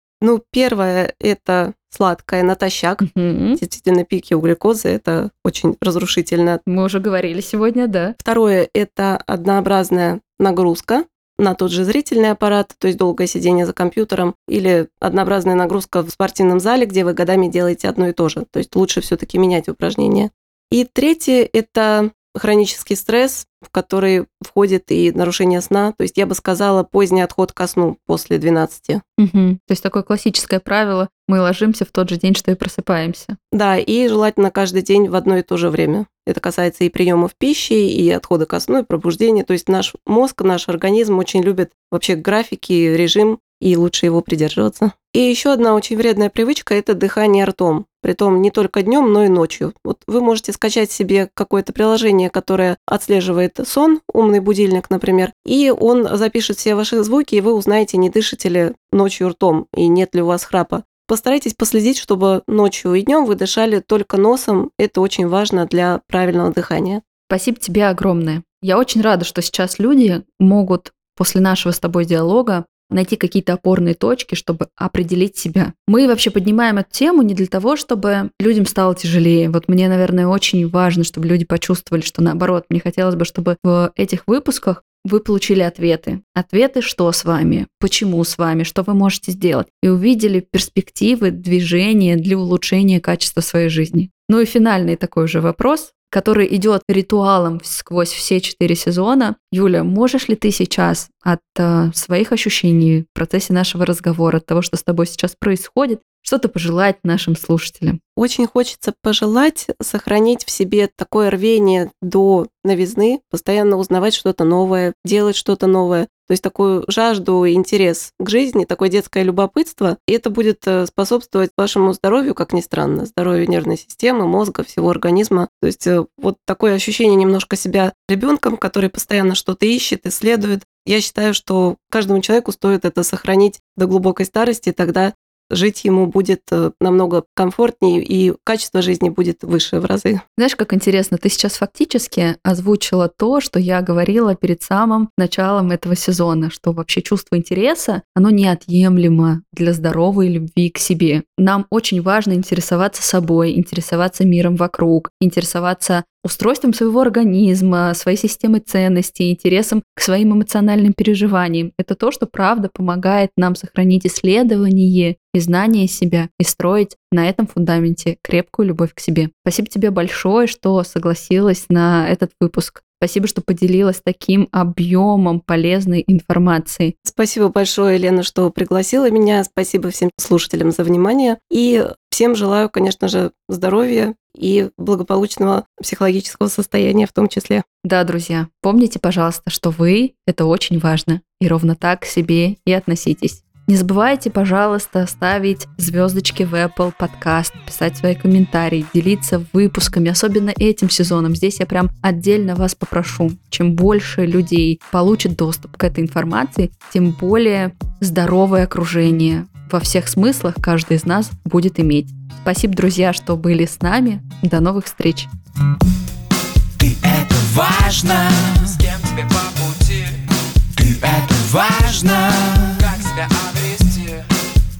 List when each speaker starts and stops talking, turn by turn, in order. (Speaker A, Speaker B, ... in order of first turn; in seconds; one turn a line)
Speaker A: 0.2-3.0
Speaker B: 3.0-3.6
Speaker A: 3.6-6.6
Speaker B: 6.7-8.2
Speaker A: 8.2-29.0
Speaker B: 29.2-33.4
Speaker A: 33.5-67.0
Speaker B: 67.3-108.0
Speaker A: 108.2-140.2
Speaker B: 140.4-176.9
Speaker A: 177.1-187.7
Speaker B: 187.8-215.3
Speaker C: 216.8-220.2
Speaker C: 220.7-224.2